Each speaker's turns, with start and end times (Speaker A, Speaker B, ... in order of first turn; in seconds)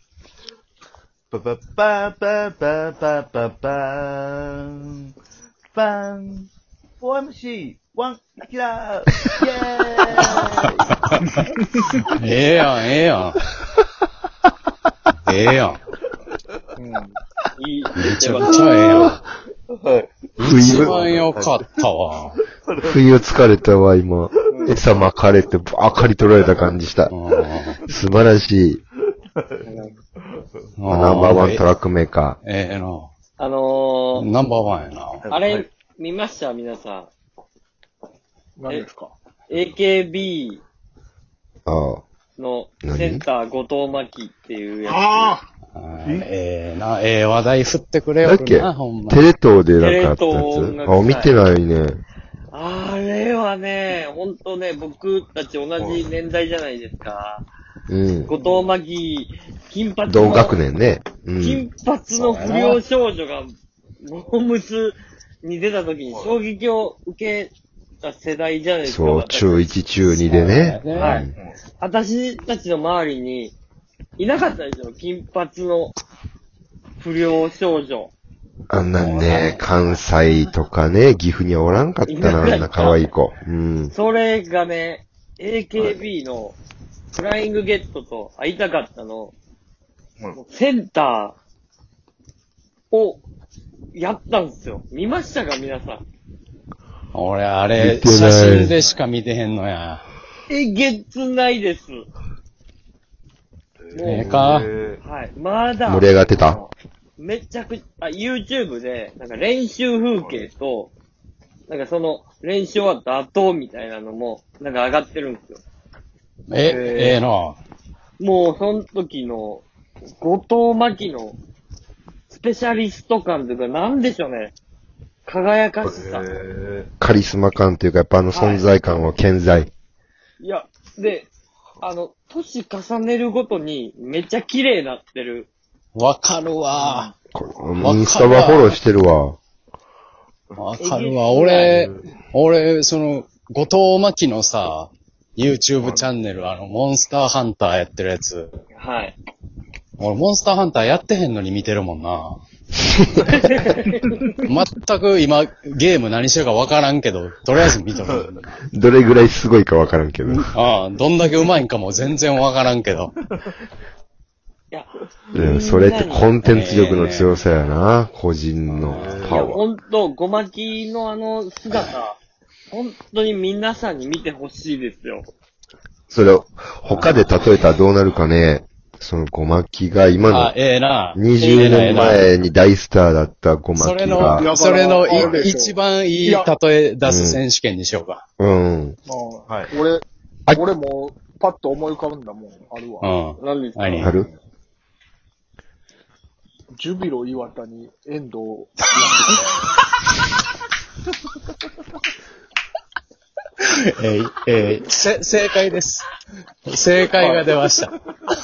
Speaker A: 1.3-5.1, 5.7-10.9, 19.7-21.7, 22.4-23.0, 29.4-30.7, 35.2-35.7, 46.0-46.3, 55.8-56.1, 66.1-66.4, 85.8-86.0, 103.8-105.0, 110.2-110.5, 125.8-126.9, 141.7-142.0, 145.8-146.1, 168.8-169.5, 189.5-189.7
Speaker B: 10.5-11.2, 12.2-13.4, 15.3-15.8, 18.0-19.2, 20.4-22.4, 27.1-27.8, 30.8-31.7, 32.4-33.1, 34.2-35.2, 45.7-49.3, 62.2-62.8, 70.1-71.2, 79.0-79.7, 97.1-100.1, 104.1-104.7, 116.5-117.6, 135.9-137.1, 137.8-138.8, 140.6-148.5, 150.0-152.4, 154.4-158.6, 160.2-163.1, 166.4-167.4, 168.8-169.1, 180.3-182.3, 183.8-188.2, 193.0-194.2, 203.6-206.1, 206.7-207.9
Speaker C: 16.8-17.2, 24.5-24.8, 38.6-39.1, 44.9-45.5, 58.4-58.7, 106.4-106.7, 116.6-117.2, 136.7-137.1, 184.2-186.5, 189.1-193.1, 196.8-199.5, 207.2-207.5
Speaker D: 17.6-19.1, 33.4-34.3, 35.3-37.1, 39.5-40.6, 42.4-45.4, 49.8-51.4, 52.5-57.5, 58.3-60.6, 61.4-69.8, 70.9-73.5, 74.2-76.0, 77.0-78.1, 82.1-83.1, 83.9-86.6, 87.1-89.3, 90.3-91.4, 92.9-93.2, 93.9-96.0, 100.5-102.1, 103.9-104.3, 105.0-106.2, 107.2-110.9, 111.7-115.6, 118.2-119.7, 120.2-121.4, 122.3-124.5, 125.3-126.3, 128.3-128.8, 130.4-131.3, 131.8-135.5, 140.8-141.8, 148.8-149.2, 153.2-154.3, 164.7-166.3, 169.3-172.2, 172.7-175.3, 181.4-181.9, 193.4-194.2
Speaker E: 20.4-21.0, 22.8-27.1, 27.9-28.8, 30.9-32.4, 41.7-42.0, 42.8-43.2, 48.2-52.0, 57.9-58.3, 60.1-61.7, 68.8-71.3, 78.7-83.9, 97.8-98.8, 105.8-106.6, 127.0-129.7, 137.3-139.4, 158.7-160.5, 165.3-169.6, 176.1-180.6, 181.2-184.5, 187.0-187.4, 188.4-189.0, 194.0-194.3